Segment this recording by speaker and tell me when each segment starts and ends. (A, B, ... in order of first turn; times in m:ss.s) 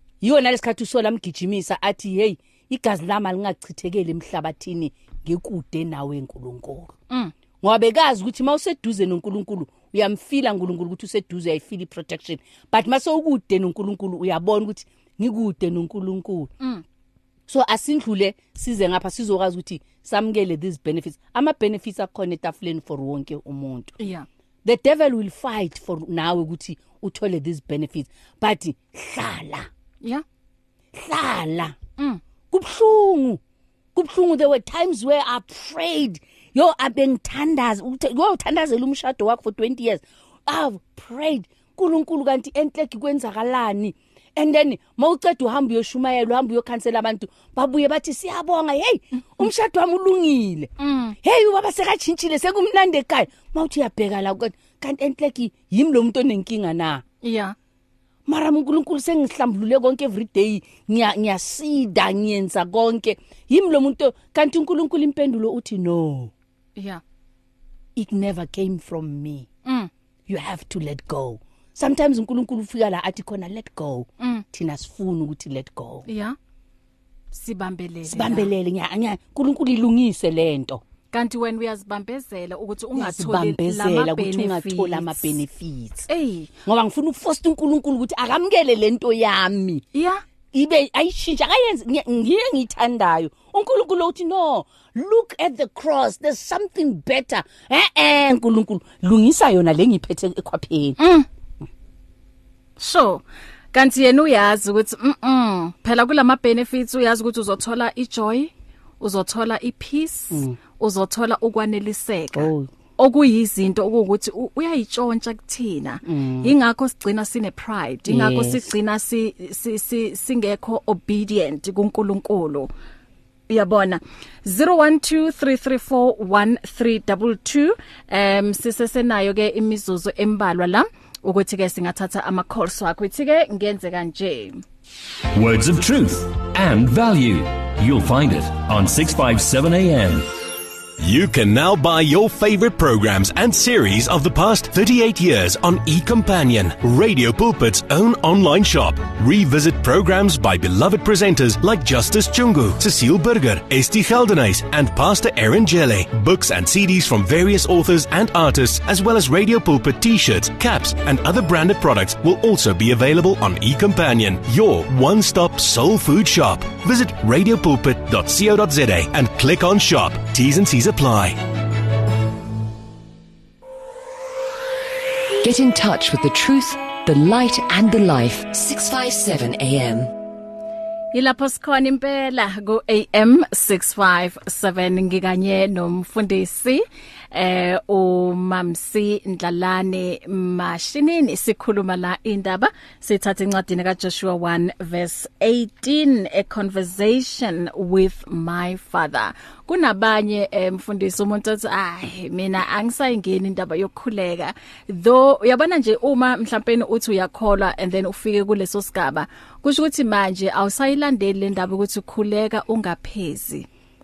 0:00.2-0:06.9 A
0:07.6-0:16.5 A
0:17.5-0:24.0 A
0:24.0-0:24.3 B
0:24.6-0:29.7 A
0:30.9-0:31.8 A
0:32.5-0:33.4 A
0:34.0-0:50.7 A
0:50.8-0:51.2 B
0:51.2-0:57.0 A
0:57.2-0:57.6 B
0:58.3-1:06.3 A
1:06.8-1:07.0 B
1:08.0-1:09.5 A
1:10.3-1:16.1 A
1:16.1-1:16.4 B
1:17.3-1:18.5 B
1:18.1-1:20.8 A
1:21.1-1:25.3 B
1:23.0-1:26.1 A
1:26.1-1:26.5 B
1:26.7-1:29.8 A
1:29.9-1:30.2 B
1:30.5-1:41.0 A
1:41.0-1:41.3 B
1:42.8-2:02.7 B
1:52.4-1:52.7 A
1:56.0-1:56.5 A
1:58.1-1:58.7 A
2:03.5-2:14.6 B
2:15.4-2:20.3 C
2:21.0-2:51.4 D
2:55.4-3:00.1 E
3:01.1-3:33.7 B